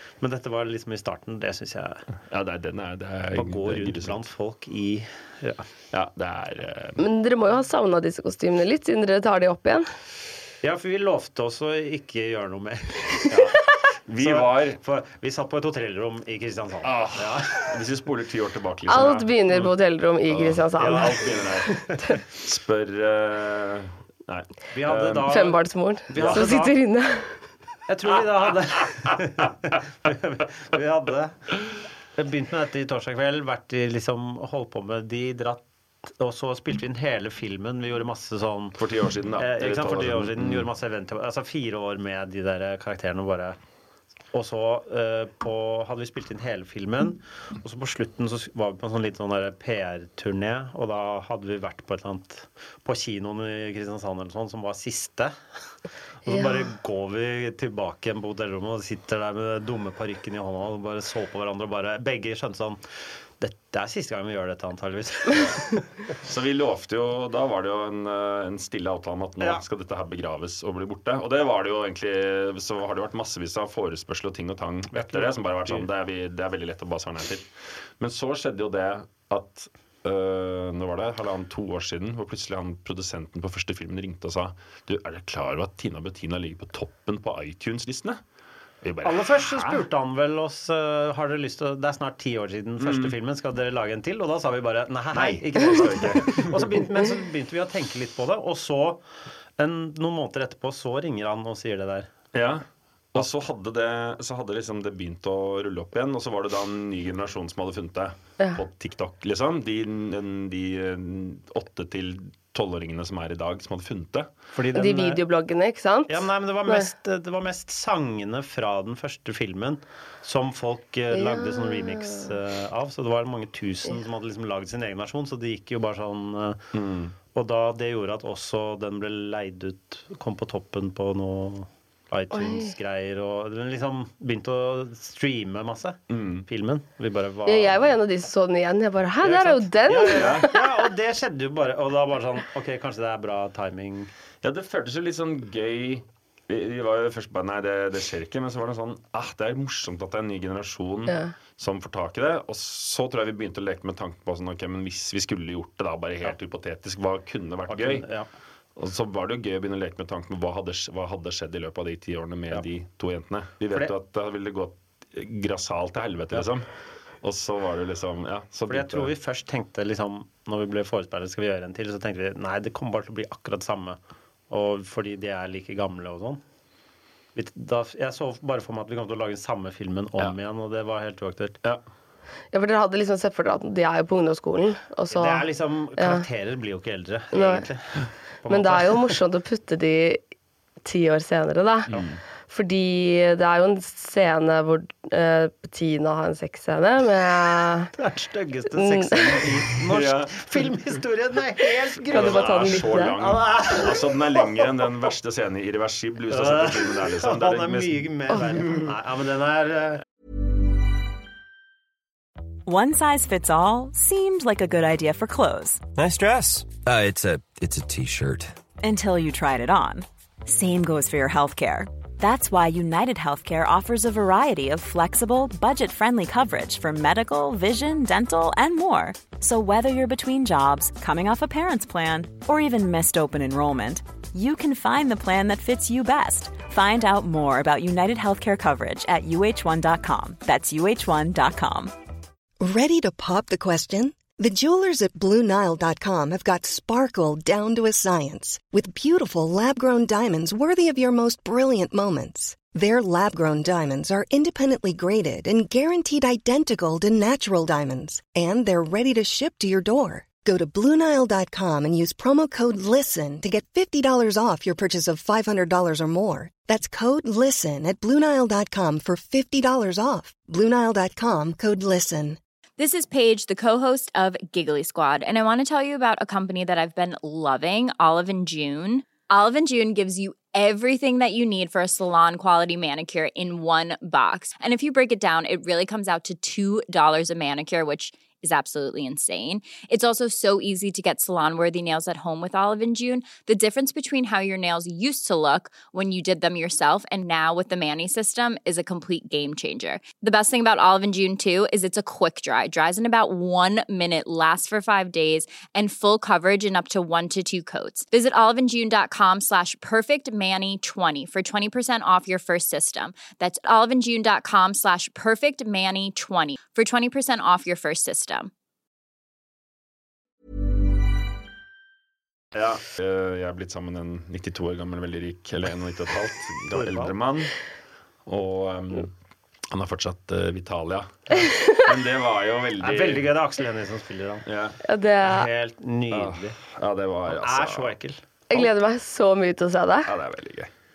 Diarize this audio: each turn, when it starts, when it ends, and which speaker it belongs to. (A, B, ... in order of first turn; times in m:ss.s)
0:00.2-0:02.0 A
0:02.3-0:04.2 B
0:03.4-0:05.7 A
0:05.9-0:07.0 B
0:07.0-0:09.9 C
0:10.6-0:13.6 A
0:14.1-0:14.8 B
0:14.2-0:17.7 A
0:16.8-0:19.3 B
0:18.9-0:21.2 C
0:20.3-0:21.8 B
0:20.8-0:22.0 A
0:22.4-0:25.4 B
0:24.7-0:26.7 A
0:25.3-0:27.4 C
0:26.1-0:26.5 B
0:27.9-0:31.5 A
0:32.2-0:38.8 A
0:38.8-0:40.7 B
0:39.4-0:43.6 A
0:44.3-0:55.3 A
0:56.2-1:02.8 A
0:56.3-0:56.6 C
1:03.4-1:05.8 A
1:06.2-1:17.5 B
1:14.9-1:15.8 A
1:18.0-1:28.2 B
1:28.8-1:29.8 B
1:29.0-1:39.0 A
1:32.8-1:33.1 B
1:35.1-1:36.6 B
1:39.6-1:42.1 A
1:42.3-1:54.3 B
1:54.5-1:55.2 A
1:54.7-1:56.9 C
1:56.1-2:06.6 A
2:01.1-2:02.3 C
2:06.7-2:07.1 B
2:07.3-2:17.9 A
2:12.3-2:12.7 C
2:16.1-2:16.4 B
2:17.4-2:20.7 C
2:19.2-2:24.1 A
2:20.1-2:20.5 B
2:24.4-2:38.0 B
2:31.1-2:31.3 C
2:37.7-2:38.3 A
2:38.8-2:46.6 B
2:47.2-2:49.1 B
2:48.7-2:54.0 A
2:54.5-2:56.4 A
2:57.3-3:01.6 A
3:02.5-3:06.2 C
3:05.1-3:09.2 A
3:07.3-3:07.7 C
3:08.5-3:10.2 C
3:10.8-3:11.9 C
3:11.9-3:12.2 B
3:12.5-3:17.9 C
3:18.0-3:24.4 A
3:18.8-3:19.3 C
3:19.9-3:20.4 B
3:22.1-3:23.1 C
3:22.1-3:28.1 B
3:26.3-3:30.0 A
3:32.6-3:35.8 D
3:35.9-3:38.5 E
3:38.8-4:01.9 D
4:02.6-4:32.4 F
4:32.8-5:18.5 G
5:22.5-5:27.5 B
5:26.7-5:27.1 A
5:28.2-5:29.1 B
5:29.7-5:33.3 B
5:31.5-5:31.8 C
5:32.8-5:34.4 A
5:34.4-5:34.8 B
5:34.8-5:35.5 C
5:35.2-5:36.6 A
5:36.1-5:37.9 B
5:37.3-5:38.2 A
5:38.5-5:40.1 C
5:40.0-5:40.7 B